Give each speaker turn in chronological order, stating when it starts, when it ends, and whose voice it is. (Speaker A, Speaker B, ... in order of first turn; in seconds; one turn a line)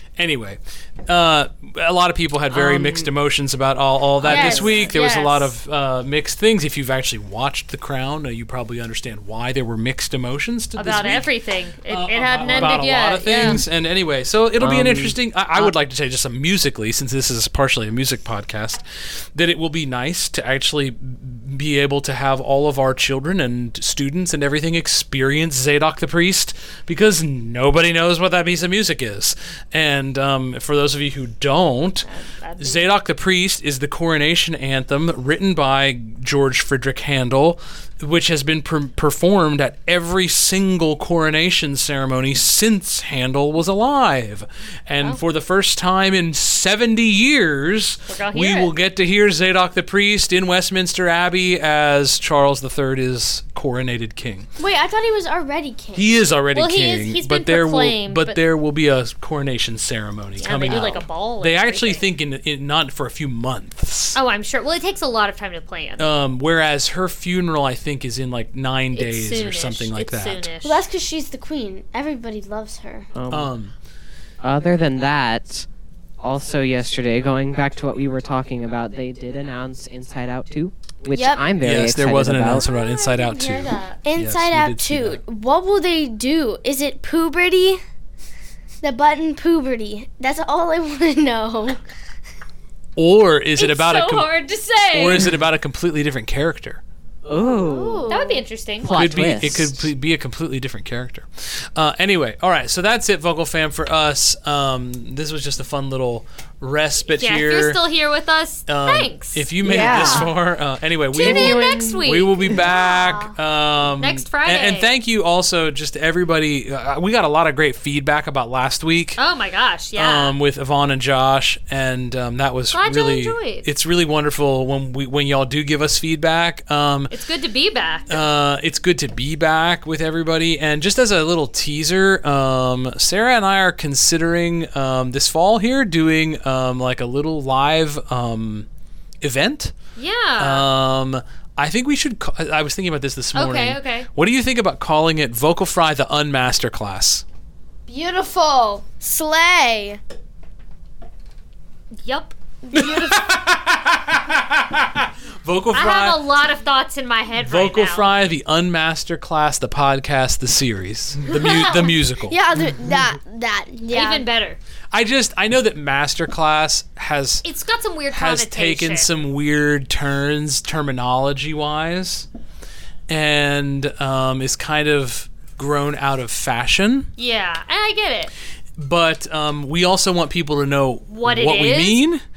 Speaker A: 0.2-11.3
Speaker B: 2.5-3.1
Speaker B: 4.2-5.0
Speaker C: 4.2-5.5
Speaker C: 10.8-13.6
Speaker A: 11.9-18.8
Speaker B: 12.4-12.8
Speaker B: 13.4-13.6
Speaker B: 14.6-15.7
Speaker A: 19.3-32.1
Speaker C: 32.0-32.9
Speaker A: 32.6-54.5
Speaker C: 48.1-48.7
Speaker D: 54.6-56.3
Speaker A: 55.9-64.2
Speaker C: 56.5-58.4
Speaker C: 60.4-62.0
Speaker C: 64.1-66.1
Speaker A: 66.0-70.5
Speaker C: 68.9-70.8
Speaker D: 70.6-73.1
Speaker B: 73.1-73.5
Speaker A: 73.3-73.7
Speaker B: 74.4-75.7
Speaker B: 76.2-82.6
Speaker D: 81.1-81.6
Speaker A: 81.6-85.2
Speaker C: 82.5-84.0
Speaker D: 84.0-87.8
Speaker D: 88.8-91.8
Speaker A: 93.0-94.3
Speaker C: 93.6-95.3
Speaker A: 94.9-96.8
Speaker B: 97.2-98.2
Speaker D: 97.4-98.4
Speaker C: 98.1-99.6
Speaker B: 98.8-99.9
Speaker A: 98.9-107.8
Speaker C: 107.2-110.2
Speaker A: 108.7-119.2
Speaker B: 109.6-110.3
Speaker D: 109.8-110.3
Speaker B: 111.1-112.5
Speaker C: 111.1-112.6
Speaker D: 112.6-113.3
Speaker C: 114.0-114.9
Speaker C: 119.2-120.3
Speaker A: 119.9-127.1
Speaker C: 122.7-123.7
Speaker C: 127.1-128.2
Speaker A: 128.1-138.7
Speaker A: 139.2-139.7
Speaker C: 140.0-140.7
Speaker A: 140.4-147.2
Speaker C: 143.3-144.1
Speaker D: 147.9-150.0
Speaker C: 152.0-152.3
Speaker D: 152.7-153.2
Speaker A: 152.7-156.2
Speaker C: 155.7-158.1
Speaker A: 157.4-162.4
Speaker C: 161.4-161.7
Speaker D: 162.3-164.2
Speaker C: 163.9-164.6
Speaker A: 164.9-167.4
Speaker C: 167.4-169.1
Speaker A: 168.1-172.3
Speaker A: 173.1-177.1
Speaker C: 177.2-178.3
Speaker A: 178.8-182.2
Speaker C: 181.1-182.0